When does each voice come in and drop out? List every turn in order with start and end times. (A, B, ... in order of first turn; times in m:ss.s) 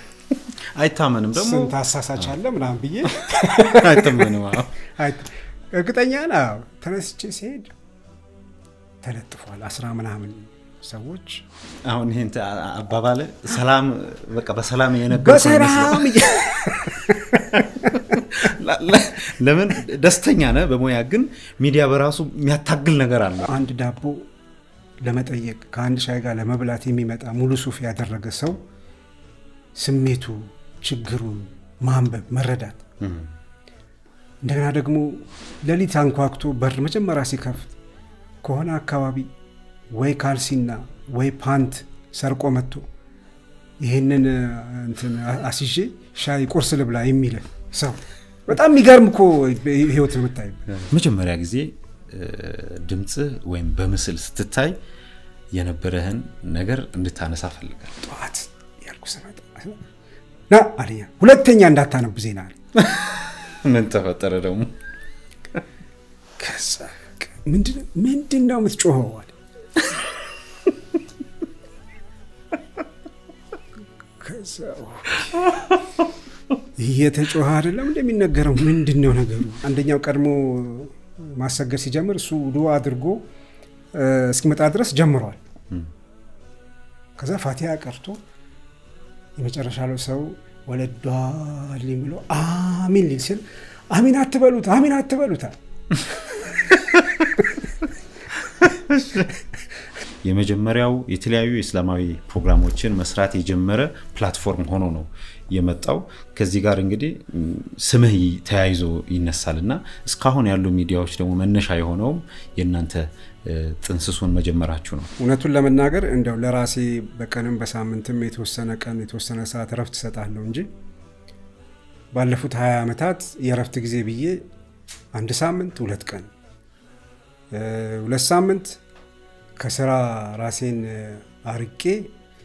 0:00.3-0:01.7 A
0:01.3-0:04.3 B
0:03.2-0:04.7 A
0:04.9-0:07.7 B
0:09.0-0:11.4 B
0:11.8-0:16.3 A
0:15.1-0:17.9 B
0:17.1-0:23.5 A
0:23.5-0:24.2 B
0:25.0-0:28.6 B
0:29.8-0:32.8 B
0:33.0-0:33.3 A
0:34.4-0:37.8 B
0:38.4-0:39.3 B
0:39.9-0:42.8 B
0:43.8-0:50.8 B
0:50.9-0:54.7 A
0:55.5-0:57.9 A
0:58.0-0:59.8 B
1:00.5-1:02.6 B
1:02.8-1:04.7 A
1:06.4-1:09.4 B
1:14.2-1:15.5 B
1:16.8-1:23.2 B
1:23.9-1:25.4 B
1:27.2-1:28.2 B
1:29.4-1:35.5 B
1:36.1-1:36.7 B
1:36.9-1:37.2 A
1:38.6-1:39.4 A
1:40.2-1:55.1 A
1:55.2-2:00.7 B
2:02.1-2:04.4 B
2:05.1-2:06.3 B
2:07.5-2:08.8 B
2:09.6-2:12.1 B